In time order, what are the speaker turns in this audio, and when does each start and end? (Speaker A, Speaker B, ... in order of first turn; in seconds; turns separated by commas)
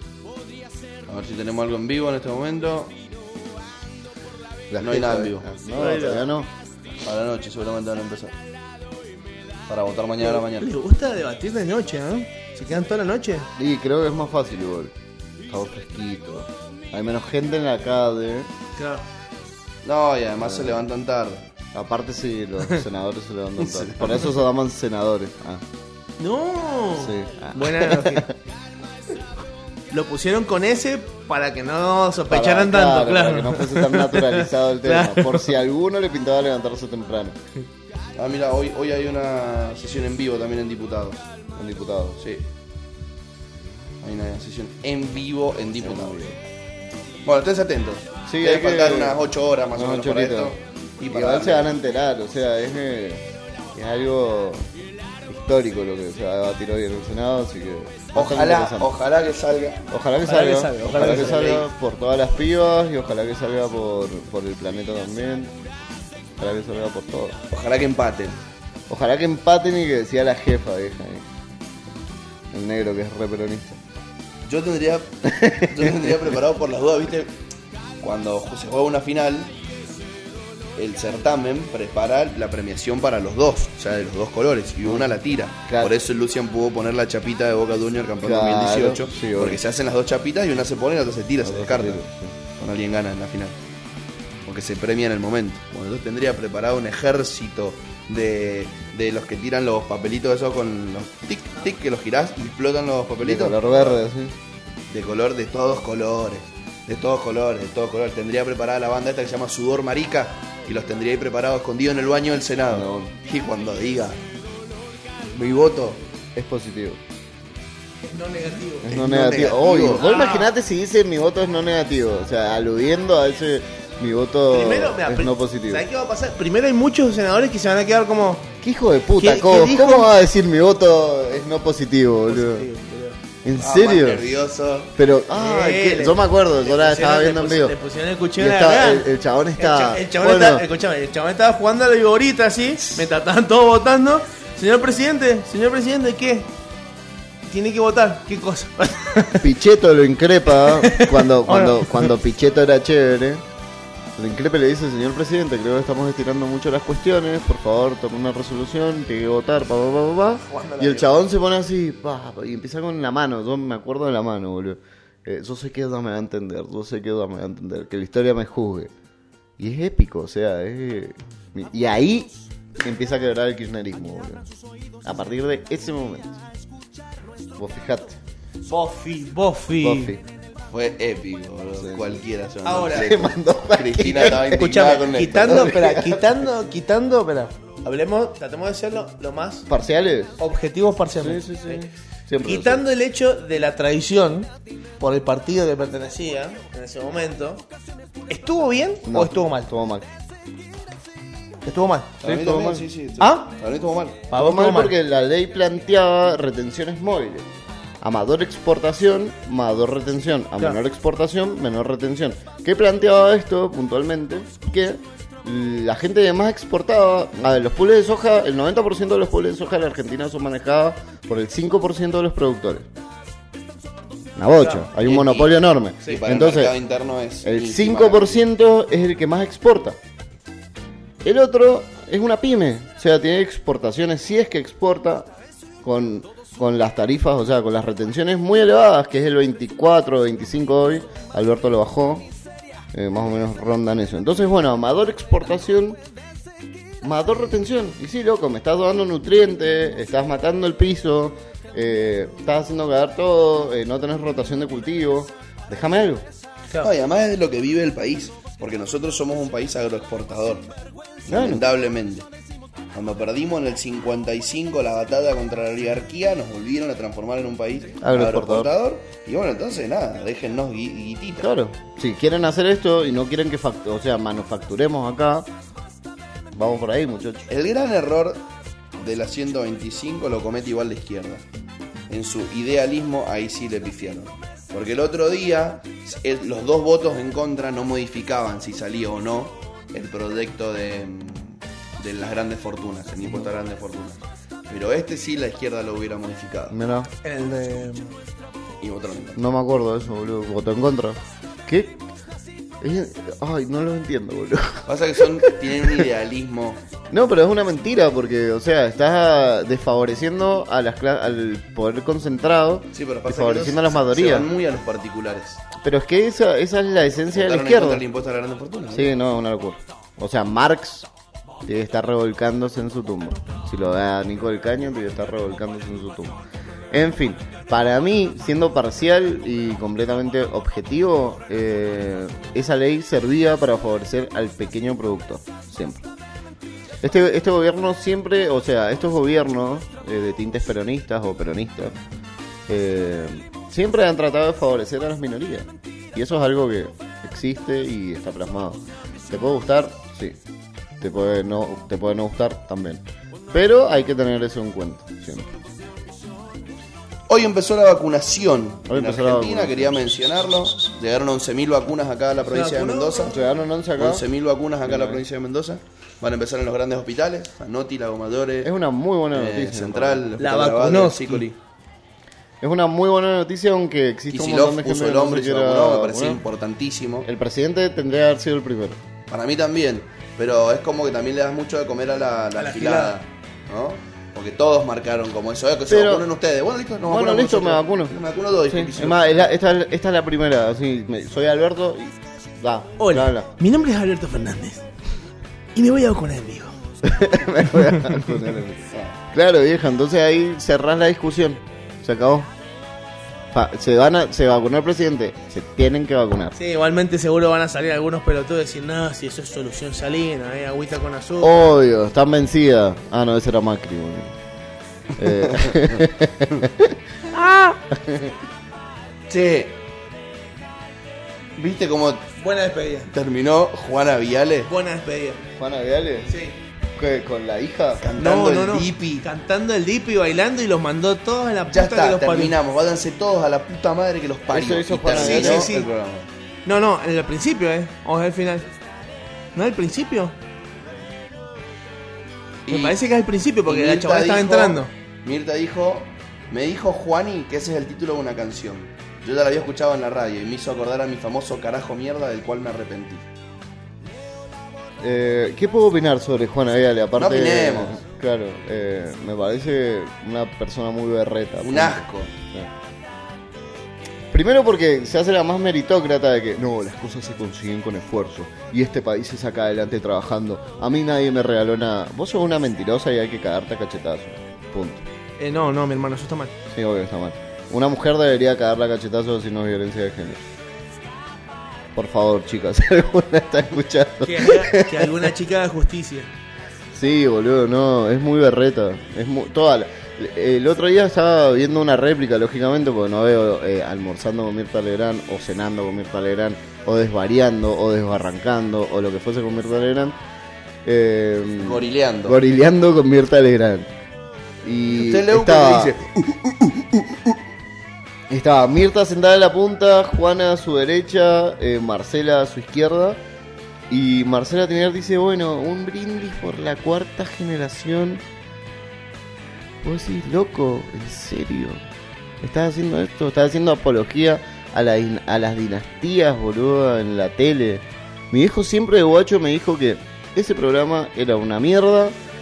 Speaker A: 1.1-2.9, Speaker B: 4.7-6.5, Speaker A: 4.8-5.5, Speaker C: 5.7-6.3, Speaker A: 7.0-8.3, Speaker A: 9.7-10.7, Speaker C: 10.2-13.5, Speaker B: 13.6-14.9, Speaker B: 15.5-18.5, Speaker C: 18.8-19.0, Speaker A: 19.8-21.4, Speaker B: 20.4-20.8, Speaker B: 21.7-25.6, Speaker A: 23.6-24.2, Speaker C: 26.2-28.3, Speaker B: 27.0-28.3, Speaker C: 29.9-35.5, Speaker B: 32.3-37.4, Speaker A: 38.1-41.2, Speaker B: 41.5-42.2, Speaker A: 42.2-42.4, Speaker A: 44.0-46.2, Speaker B: 45.8-46.4, Speaker A: 47.2-51.7, Speaker B: 48.3-49.2, Speaker B: 49.7-50.5, Speaker B: 51.1-54.7, Speaker B: 55.3-58.9, Speaker A: 58.1-59.8, Speaker B: 59.9-65.5, Speaker C: 60.2-61.6, Speaker A: 60.9-61.6, Speaker B: 66.4-67.4, Speaker A: 67.5-68.4, Speaker B: 68.9-71.2, Speaker B: 72.5-73.8, Speaker A: 74.5-77.3, Speaker B: 75.2-76.2, Speaker A: 78.0-79.5, Speaker A: 80.8-92.0, Speaker B: 84.8-85.1, Speaker B: 85.7-85.9, Speaker B: 88.2-89.6, Speaker B: 91.4-92.3, Speaker A: 92.6-93.5, Speaker A: 94.5-104.0, Speaker B: 103.2-104.3, Speaker A: 104.9-114.2, Speaker B: 112.7-113.1, Speaker A: 115.3-116.0, Speaker B: 116.3-117.0, Speaker C: 118.1-118.9, Speaker B: 118.8-125.8, Speaker A: 118.9-120.0, Speaker C: 119.9-120.5, Speaker C: 124.5-128.5, Speaker B: 128.6-132.7, Speaker C: 129.2-130.1, Speaker C: 132.3-133.2, Speaker B: 133.4-134.2, Speaker A: 133.6-134.9, Speaker B: 135.0-137.7, Speaker C: 135.3-146.5, Speaker B: 138.4-140.6, Speaker C: 147.4-149.4, Speaker B: 149.4-153.4, Speaker C: 150.8-152.1, Speaker B: 154.2-168.9, Speaker C: 160.4-161.1, Speaker B: 169.6-174.5, Speaker B: 175.0-176.4, Speaker B: 177.6-178.2, Speaker C: 178.7-180.1, Speaker B: 179.8-180.2, Speaker A: 180.7-185.8, Speaker B: 181.8-182.2, Speaker C: 182.6-183.1, Speaker B: 182.9-184.7, Speaker C: 184.4-189.7, Speaker B: 185.4-186.4, Speaker B: 189.7-190.4, Speaker C: 190.4-191.8, Speaker B: 191.2-192.8, Speaker C: 192.4-197.6, Speaker C: 198.3-199.7, Speaker B: 199.0-200.1, Speaker C: 201.6-202.1, Speaker A: 202.2-204.2, Speaker B: 202.2-202.9, Speaker C: 203.2-203.5, Speaker C: 204.3-204.9, Speaker B: 204.3-207.5, Speaker B: 208.0-222.9, Speaker B: 224.4-226.8, Speaker C: 224.6-224.9, Speaker A: 225.0-228.4, Speaker B: 227.4-230.0, Speaker B: 231.2-235.3, Speaker B: 235.8-242.3, Speaker B: 242.9-246.0, Speaker B: 247.0-256.2, Speaker A: 256.8-260.6, Speaker A: 261.3-262.2, Speaker B: 261.3-261.6, Speaker A: 262.9-271.5, Speaker B: 268.0-268.7, Speaker B: 271.4-275.5, Speaker B: 276.5-277.5, Speaker A: 277.5-278.4, Speaker A: 279.0-281.4, Speaker A: 282.1-296.8, Speaker B: 296.7-297.1, Speaker C: 297.2-298.1, Speaker A: 298.8-299.4, Speaker B: 299.4-302.0, Speaker B: 302.8-306.1, Speaker A: 304.9-306.8, Speaker B: 307.1-314.5, Speaker A: 312.9-315.6, Speaker B: 315.8-318.0, Speaker A: 317.3-319.1, Speaker B: 318.9-321.1, Speaker B: 321.6-326.4, Speaker B: 326.9-336.0, Speaker B: 337.0-342.0, Speaker B: 342.7-350.4, Speaker B: 351.0-355.5, Speaker A: 357.3-363.4, Speaker B: 358.9-360.1, Speaker C: 362.5-363.3, Speaker B: 363.3-364.2, Speaker A: 364.0-368.7, Speaker B: 364.8-365.2, Speaker B: 368.6-370.3, Speaker A: 369.3-371.6, Speaker C: 370.4-371.4, Speaker B: 372.6-376.4, Speaker A: 374.3-377.3, Speaker B: 377.2-379.0, Speaker A: 379.3-389.5, Speaker C: 382.6-383.1, Speaker B: 385.9-386.3, Speaker B: 387.1-388.2, Speaker B: 388.7-393.5, Speaker C: 393.0-394.8, Speaker C: 395.7-396.7, Speaker B: 397.0-402.5, Speaker C: 397.8-398.2, Speaker B: 403.5-406.6, Speaker C: 406.6-411.6, Speaker B: 411.4-414.3, Speaker B: 415.2-418.3, Speaker A: 419.3-419.7, Speaker A: 421.6-422.2, Speaker C: 422.4-423.1, Speaker A: 423.1-424.7, Speaker C: 424.6-425.4, Speaker B: 425.5-426.3, Speaker C: 426.3-426.6, Speaker B: 426.9-428.1, Speaker A: 428.0-429.2, Speaker C: 428.1-432.6, Speaker A: 431.7-436.3, Speaker B: 434.5-435.8, Speaker C: 435.1-435.9, Speaker C: 436.6-438.7, Speaker C: 439.5-440.3, Speaker A: 442.6-443.0, Speaker C: 442.7-444.9, Speaker A: 443.6-453.2, Speaker B: 455.0-462.7, Speaker A: 457.2-458.0, Speaker A: 461.6-462.3, Speaker B: 464.3-475.1, Speaker C: 475.4-476.5, Speaker B: 476.7-480.4, Speaker B: 481.9-485.3, Speaker C: 484.2-486.3, Speaker B: 486.9-500.2, Speaker B: 500.8-503.9, Speaker A: 501.6-502.4, Speaker B: 504.6-506.0, Speaker A: 504.9-507.0, Speaker B: 508.3-513.2, Speaker B: 513.9-518.2, Speaker B: 519.8-521.8, Speaker B: 522.4-532.2